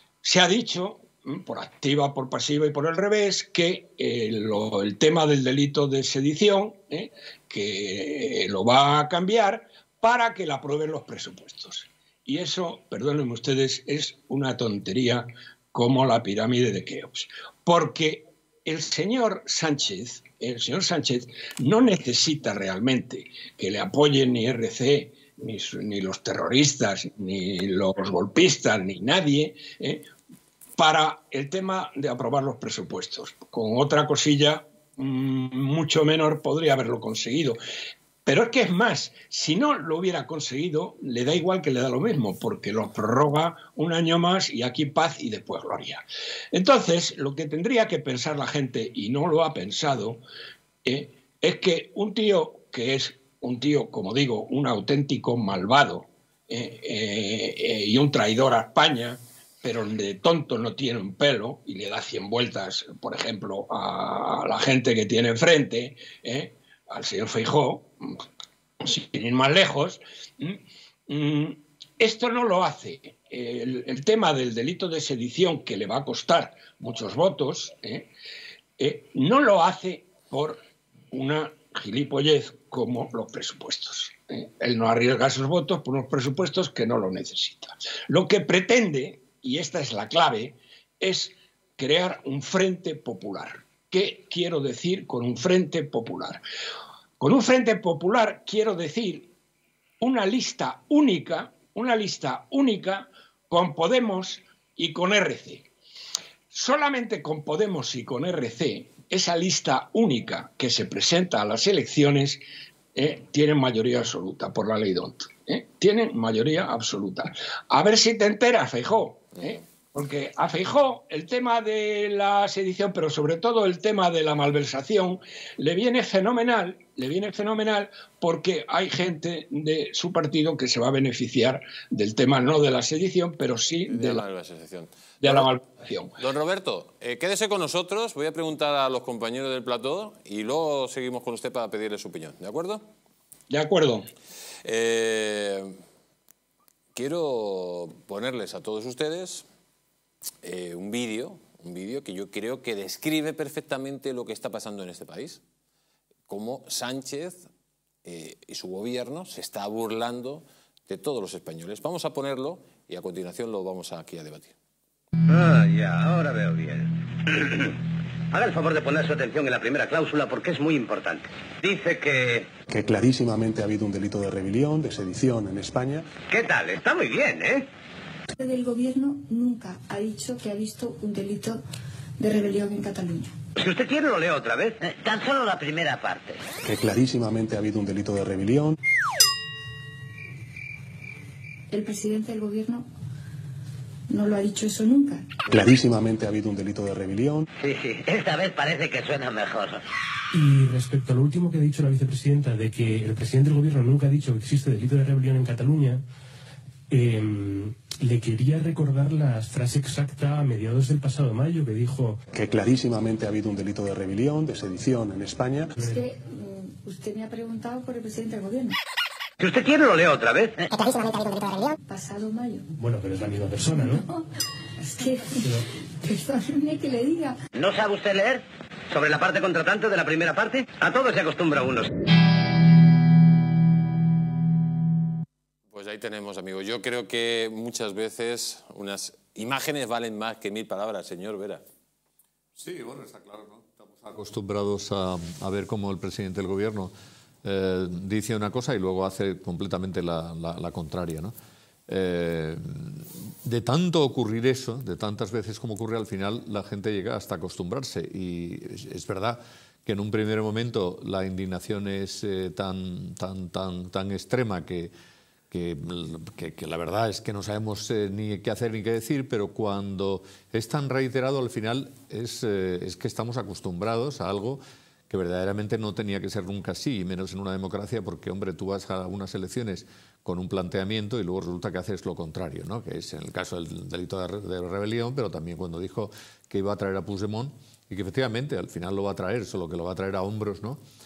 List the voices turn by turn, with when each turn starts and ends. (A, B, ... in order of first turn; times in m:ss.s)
0:00.2-0:30.1 A
0:30.8-0:37.6 A
0:38.3-0:50.2 A
0:50.8-1:08.2 A
1:08.8-1:18.1 A
1:18.8-1:20.6 A
1:21.1-1:36.4 A
1:37.2-1:39.3 A
1:40.0-1:45.7 A
1:46.5-1:52.4 A
1:53.0-2:14.2 A
2:13.9-2:15.5 B
2:15.2-2:16.1 A
2:16.2-2:22.9 B
2:23.5-2:24.1 A
2:24.6-2:25.8 B
2:27.0-2:29.5 B
2:30.4-2:35.4 B
2:36.3-2:37.5 B
2:38.0-2:44.6 B
2:45.3-2:47.8 C
2:48.3-2:52.5 C
2:52.7-2:56.1 D
2:56.2-2:57.7 C
2:58.4-3:01.6 E
3:02.2-3:03.3 E
3:03.6-3:06.4 C
3:06.6-3:08.8 D
3:11.7-3:12.9 E
3:14.1-3:15.3 E
3:15.5-3:17.5 D
3:17.6-3:19.8 C
3:20.3-3:26.0 F
3:26.9-3:32.2 F
3:32.3-3:35.7 D
3:35.8-3:38.8 E
3:39.4-3:41.0 C
3:41.8-3:42.7 E
3:42.8-3:44.0 F
3:44.8-3:47.4 E
3:47.6-3:51.9 C
3:55.7-4:01.6 B
4:02.6-4:11.3 G
4:11.9-4:24.9 G
4:25.5-4:50.8 G